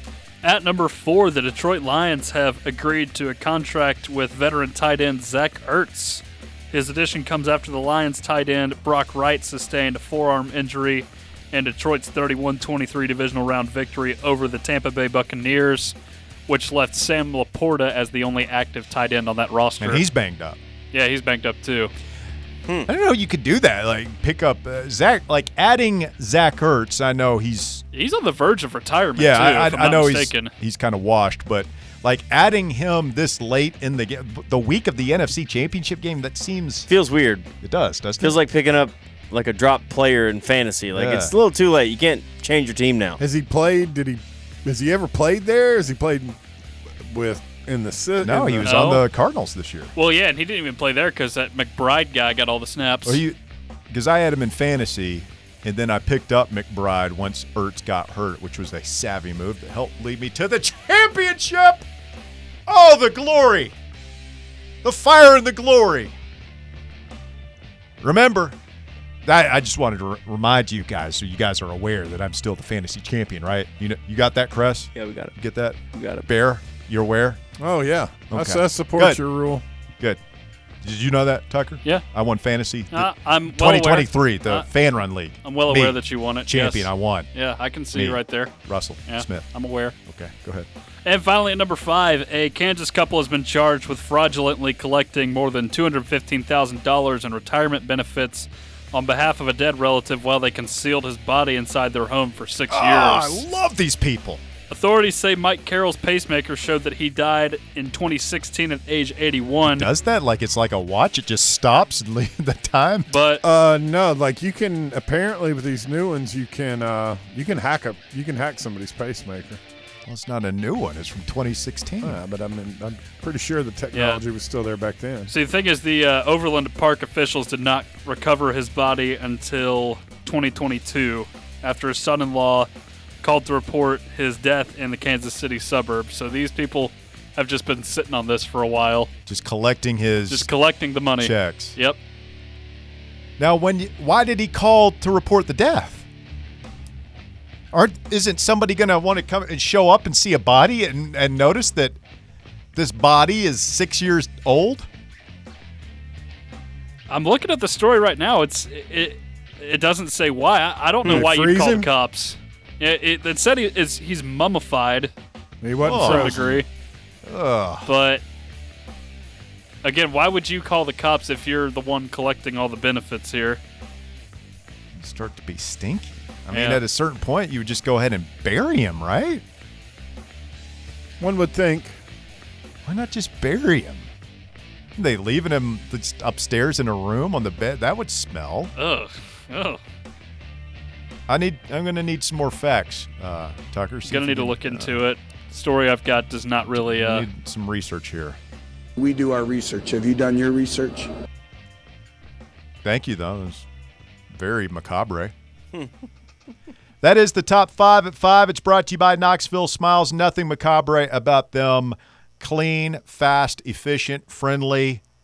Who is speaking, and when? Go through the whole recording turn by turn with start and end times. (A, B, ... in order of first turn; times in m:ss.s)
0:00.4-0:15.9 A
0:16.5-0:20.0 A
0:19.8-0:20.6 B
0:20.9-0:21.9 A
0:22.9-0:27.8 B
0:27.9-0:30.5 A
0:29.2-0:36.9 B
0:36.9-0:37.5 C
0:37.6-0:38.4 B
0:38.2-0:43.2 C
0:40.9-0:41.3 B
0:43.2-0:46.4 D
0:47.0-0:48.9 D
0:48.2-0:49.9 B
0:48.6-0:49.0 A
0:49.9-0:53.2 A
0:53.0-0:53.4 B
0:53.9-1:01.8 B
1:02.7-1:03.7 B
1:04.8-1:06.1 B
1:08.0-1:08.6 B
1:09.2-1:17.4 B
1:14.9-1:15.3 C
1:15.9-1:16.2 C
1:17.6-1:19.6 D
1:18.3-1:19.2 B
1:20.8-1:27.3 B
1:22.9-1:24.6 A
1:25.4-1:28.5 A
1:27.9-1:29.5 B
1:29.1-1:29.9 A
1:30.0-1:30.7 B
1:31.0-1:43.4 A
1:42.7-1:44.4 B
1:44.7-1:49.9 A
1:49.6-1:53.1 B
1:53.1-1:53.4 A
1:53.4-1:59.6 D
2:00.0-2:02.2 B
2:02.0-2:05.3 D
2:03.9-2:04.2 A
2:05.3-2:12.7 A
2:13.2-2:19.1 A
2:19.3-2:20.5 B
2:20.3-2:22.0 A
2:21.2-2:21.8 B
2:23.4-2:26.0 B
2:27.7-2:32.0 B
2:32.7-2:34.9 B
2:37.1-2:45.1 A
2:41.0-2:41.9 D
2:45.6-2:46.6 D
2:45.8-2:46.6 A
2:45.8-2:46.4 B
2:47.2-2:47.9 B
2:47.8-2:48.2 A
2:49.8-2:53.6 A
2:55.0-2:59.4 B
2:56.5-2:56.8 A
3:01.2-3:02.0 D
3:02.8-3:04.1 B
3:05.0-3:08.7 B
3:08.8-3:09.8 A
3:11.3-3:15.0 B
3:14.1-3:17.3 A
3:16.9-3:18.4 B
3:19.0-3:21.1 E
3:22.8-3:23.6 B
3:24.3-3:25.3 B
3:27.0-3:35.0 B